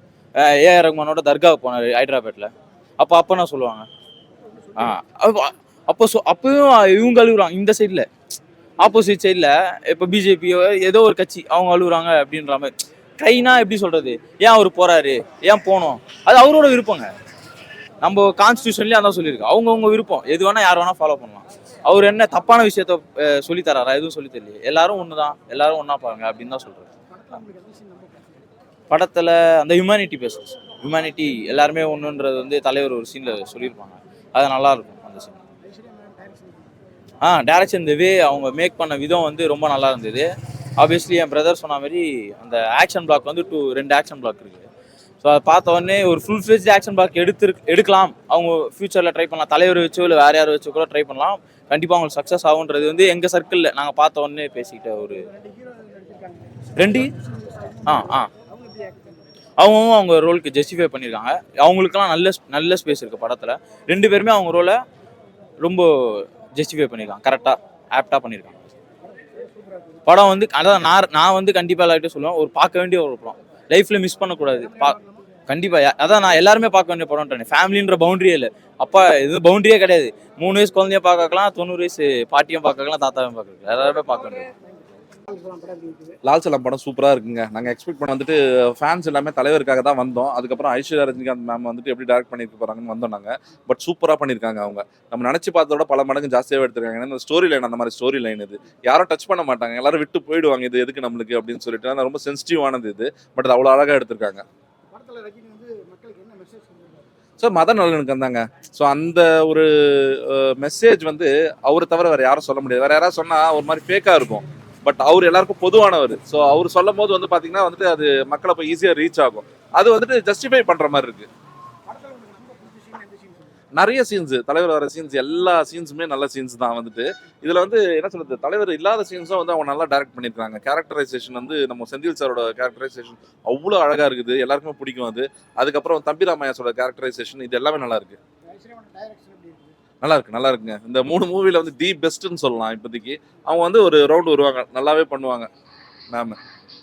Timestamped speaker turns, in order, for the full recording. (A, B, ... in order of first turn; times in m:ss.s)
0:00.4-0:03.9 A
0:04.6-0:04.8 B
0:04.8-0:08.1 A
0:08.8-0:17.1 A
0:18.0-0:26.9 A
0:27.1-0:28.4 B
0:28.9-0:35.3 A
0:35.6-0:36.7 B
0:37.2-0:44.7 A
0:45.2-0:55.3 A
0:55.2-0:56.6 B
0:56.8-0:57.1 A
0:57.2-0:59.3 B
0:57.8-0:58.3 A
0:59.6-1:04.8 A
1:05.6-1:08.6 A
1:09.4-1:10.0 B
1:10.0-1:15.0 A
1:14.6-1:15.3 B
1:15.5-1:24.5 A
1:25.2-1:26.1 B
1:26.2-1:44.4 C
1:44.9-1:47.0 B
1:47.4-2:01.3 C
2:01.9-2:03.5 B
2:03.7-2:18.2 C
2:18.4-2:19.7 B
2:20.0-2:25.5 C
2:26.1-2:26.4 C